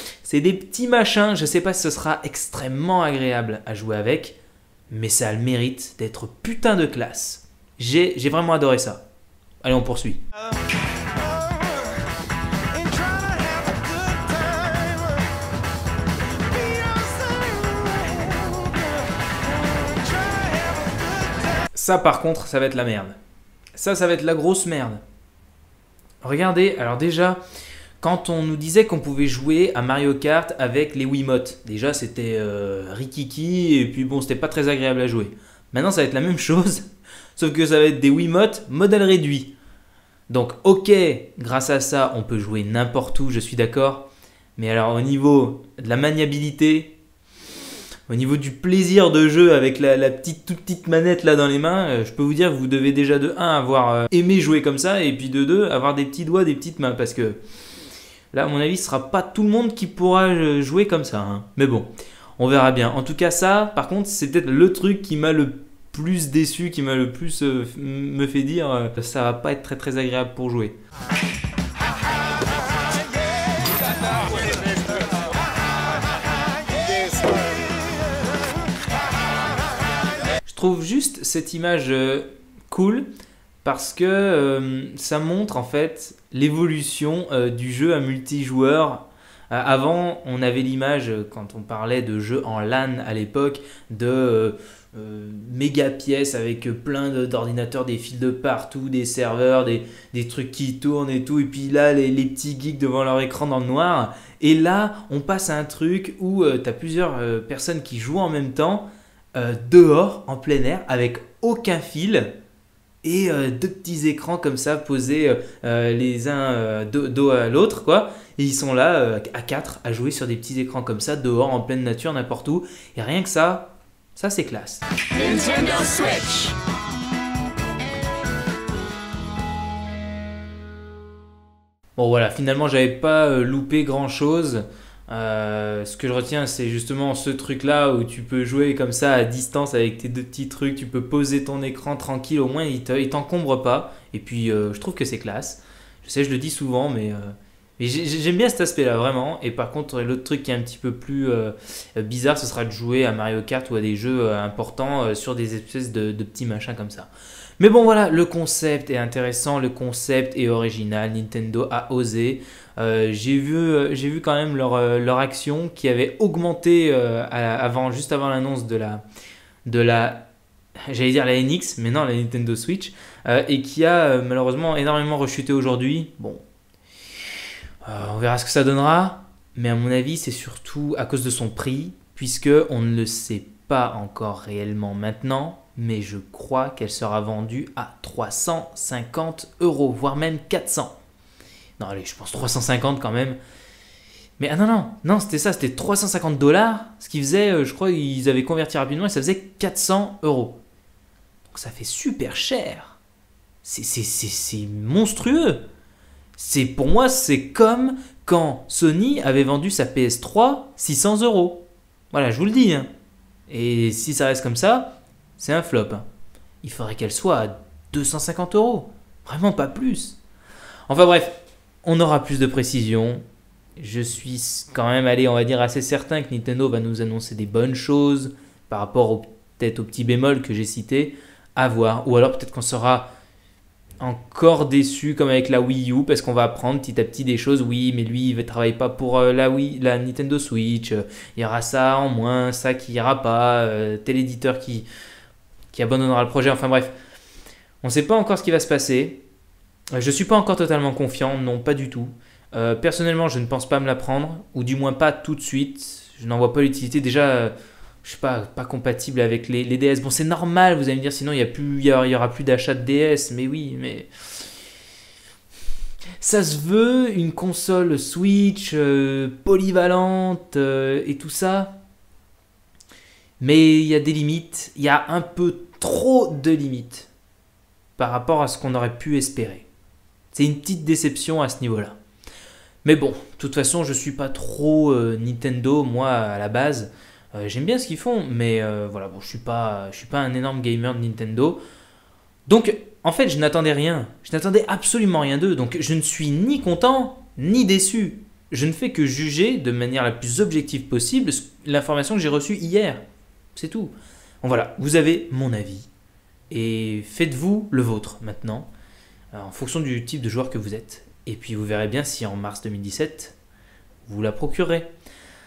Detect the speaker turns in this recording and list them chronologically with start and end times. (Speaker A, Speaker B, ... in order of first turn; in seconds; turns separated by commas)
Speaker A: 0.2-4.3, Speaker A: 4.9-9.0, Speaker A: 9.6-10.2, Speaker A: 21.7-23.2, Speaker A: 23.7-25.0, Speaker A: 26.2-27.4, Speaker A: 28.0-39.5, Speaker A: 40.3-47.0, Speaker A: 48.1-57.4, Speaker A: 58.3-70.8, Speaker A: 80.5-83.1, Speaker A: 83.6-112.3, Speaker A: 113.0-126.4, Speaker A: 131.9-169.0, Speaker A: 169.7-170.3, Speaker A: 170.9-176.4, Speaker A: 177.8-190.9, Speaker A: 191.8-193.4, Speaker A: 194.4-200.6, Speaker A: 201.5-203.0, Speaker A: 203.6-205.6, Speaker A: 206.4-212.9, Speaker A: 213.5-216.1, Speaker A: 216.6-220.2, Speaker A: 220.9-223.2, Speaker A: 223.8-233.1, Speaker A: 234.0-244.9, Speaker A: 245.7-246.9, Speaker A: 247.8-249.2, Speaker A: 249.9-264.1, Speaker A: 266.2-271.8, Speaker A: 273.4-277.1, Speaker A: 278.0-279.7, Speaker A: 280.3-281.9, Speaker A: 282.8-291.6, Speaker A: 292.5-303.0, Speaker A: 303.6-305.9, Speaker A: 306.5-308.7, Speaker A: 309.3-313.4, Speaker A: 314.1-314.9